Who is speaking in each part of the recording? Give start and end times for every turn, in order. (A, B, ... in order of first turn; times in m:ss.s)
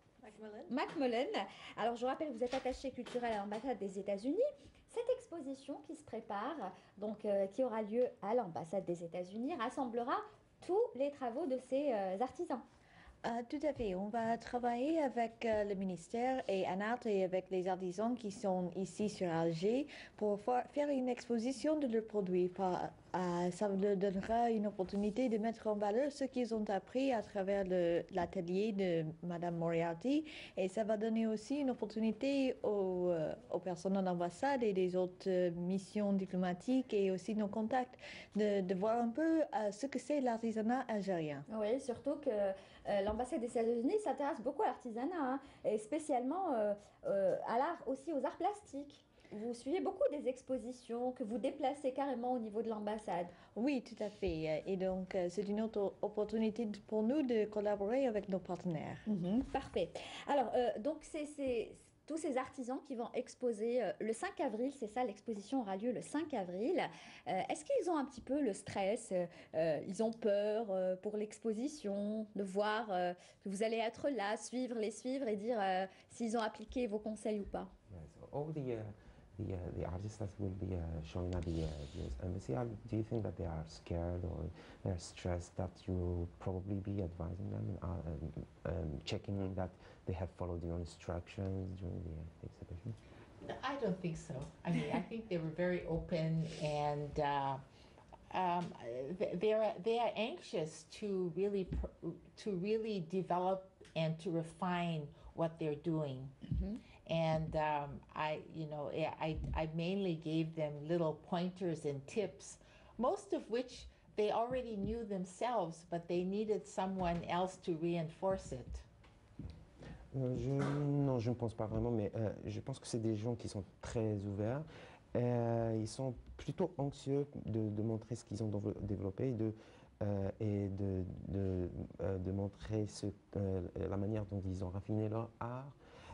0:00.2-0:00.7 A
0:00.7-0:12.6 B
0:13.2-0:41.5 A
0:41.5-0:53.3 B
0:53.6-0:59.1 A
0:59.1-1:17.7 B
1:17.9-1:33.0 C
1:33.4-1:37.6 D
1:38.3-1:46.3 D
1:46.5-1:46.8 B
1:47.1-1:58.9 D
2:00.1-2:15.7 C